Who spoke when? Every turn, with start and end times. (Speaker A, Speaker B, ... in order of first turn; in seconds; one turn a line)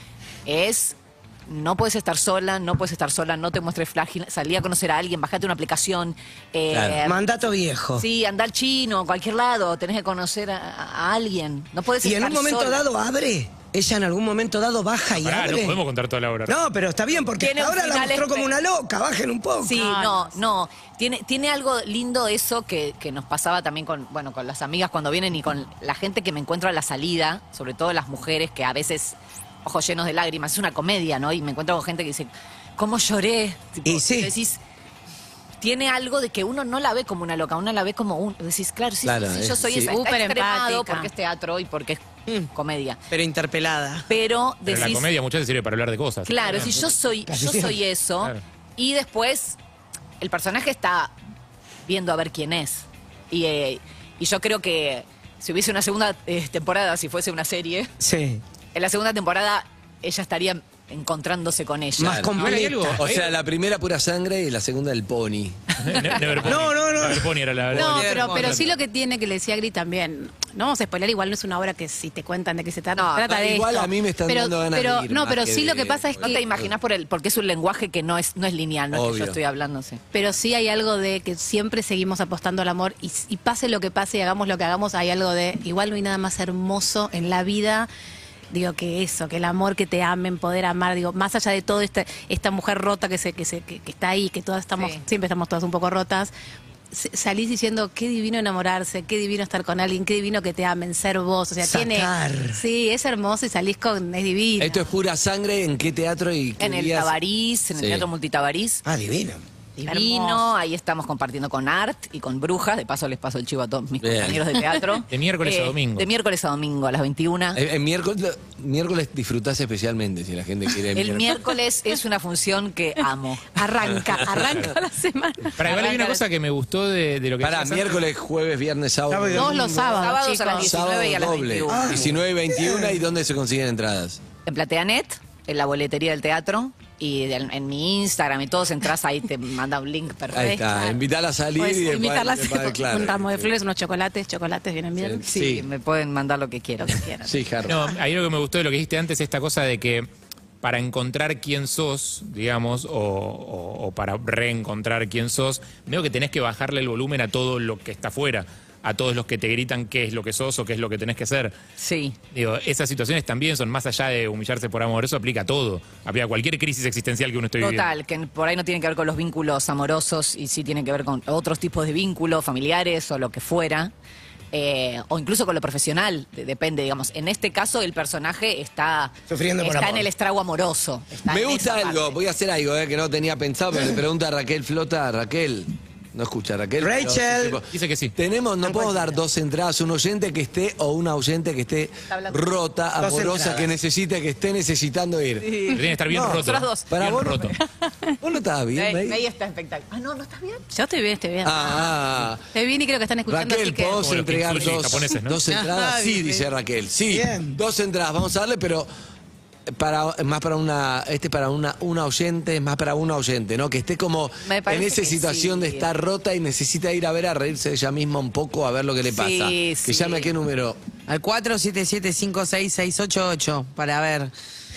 Speaker A: 0.5-7.2
Speaker B: 6.7-7.0
Speaker C: 7.0-8.0
Speaker A: 8.0-12.8
Speaker C: 12.0-15.8
Speaker D: 15.2-16.5
Speaker C: 16.5-19.8
Speaker A: 17.4-18.5
Speaker A: 19.6-34.6
Speaker E: 19.7-20.4
Speaker C: 33.9-34.3
Speaker A: 35.6-43.0
Speaker B: 39.0-40.0
Speaker E: 39.7-41.1
Speaker F: 43.1-44.1
Speaker A: 44.1-45.1
Speaker D: 44.7-46.7
Speaker A: 46.2-49.6
Speaker C: 47.3-47.8
Speaker A: 50.2-51.1
Speaker A: 51.9-57.9
Speaker C: 58.0-58.4
Speaker A: 58.7-62.3
Speaker C: 62.0-63.1
Speaker B: 62.0-66.5
Speaker D: 62.4-63.1
Speaker D: 65.8-68.6
Speaker C: 66.4-67.3
Speaker E: 67.7-76.5
Speaker F: 67.7-68.6
Speaker A: 72.9-73.3
Speaker B: 73.2-76.7
Speaker A: 76.2-80.0
Speaker B: 78.9-79.4
Speaker E: 80.1-87.9
Speaker E: 88.5-96.3
Speaker A: 94.8-95.0
Speaker E: 96.9-104.8
Speaker C: 101.6-102.6
Speaker B: 104.6-107.1
Speaker A: 106.6-108.8
Speaker B: 107.8-108.1
Speaker C: 108.8-109.4
Speaker A: 109.8-117.6
Speaker E: 109.8-110.5
Speaker B: 114.0-114.4
Speaker D: 115.1-116.1
Speaker B: 117.5-121.4
Speaker A: 120.9-123.6
Speaker E: 123.5-125.6
Speaker B: 123.9-124.5
Speaker D: 125.6-128.0
Speaker A: 125.6-126.2
Speaker B: 127.4-129.9
Speaker C: 129.1-129.8
Speaker E: 129.3-130.7
Speaker A: 129.9-132.1
Speaker B: 130.6-134.2
Speaker C: 131.7-132.9
Speaker A: 134.4-140.6
Speaker B: 140.3-143.5
Speaker E: 140.4-141.0
Speaker E: 141.6-145.2
Speaker B: 145.0-145.7
Speaker A: 145.2-147.0
Speaker E: 146.8-147.3
Speaker B: 147.2-147.9
Speaker D: 147.7-150.1
Speaker D: 150.6-161.5
Speaker A: 161.8-162.2
Speaker D: 162.3-167.9
Speaker A: 167.6-173.9
Speaker A: 174.5-182.2
Speaker C: 179.3-180.1
Speaker B: 181.2-195.5
Speaker C: 186.8-187.6
Speaker D: 187.7-188.1
Speaker A: 192.1-192.4
Speaker C: 193.0-193.7
Speaker A: 195.4-197.2
Speaker D: 195.7-197.6
Speaker B: 196.9-197.5
Speaker E: 197.8-198.1
Speaker B: 198.2-199.2
Speaker A: 198.7-200.6
Speaker E: 200.7-201.9
Speaker B: 201.4-202.4
Speaker E: 202.5-204.1
Speaker B: 203.3-208.9
Speaker D: 204.0-205.4
Speaker F: 205.5-206.5
Speaker C: 207.1-207.6
Speaker B: 209.7-220.8
Speaker A: 214.4-215.9
Speaker A: 219.0-220.3
Speaker F: 221.1-224.3